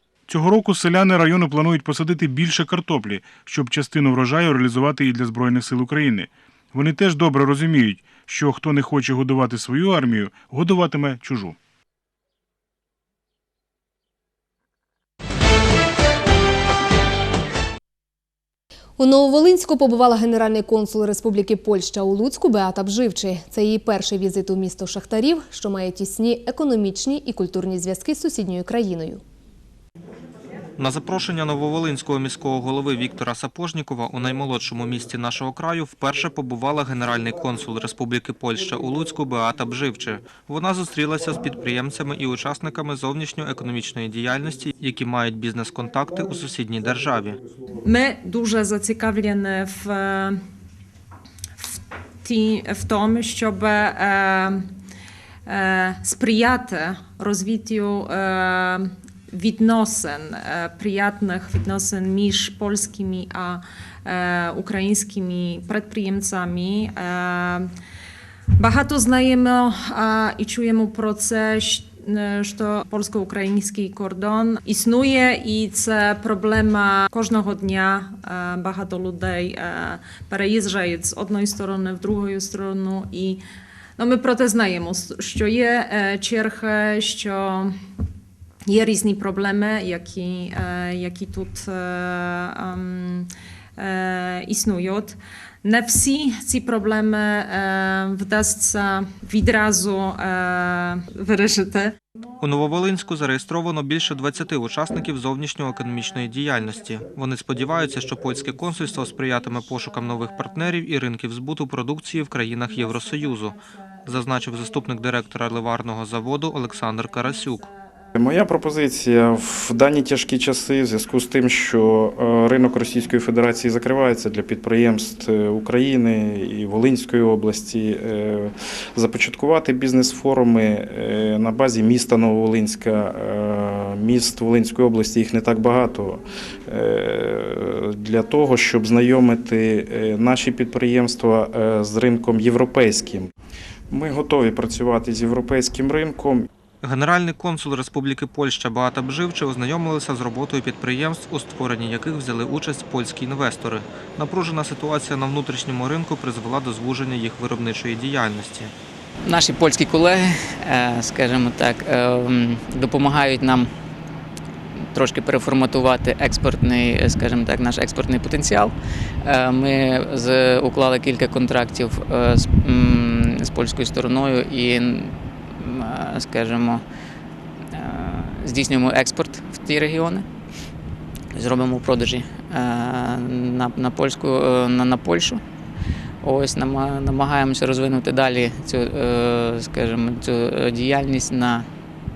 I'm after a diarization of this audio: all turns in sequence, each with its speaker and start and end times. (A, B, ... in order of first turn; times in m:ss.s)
0:00.3-0:11.6 A
0:19.0-0:29.2 B
0:30.8-0:47.4 C
0:47.8-0:50.4 D
0:51.6-0:54.7 D
0:55.5-1:07.7 D
1:08.6-1:23.4 D
1:24.0-1:27.8 D
1:28.7-1:41.9 D
1:42.4-1:57.7 C
1:58.2-2:23.3 E
2:23.9-2:26.5 E
2:26.8-2:38.7 C
2:39.2-2:43.7 F
2:44.9-2:56.8 F
2:57.7-3:00.3 F
3:01.3-3:05.4 F
3:06.2-3:11.7 F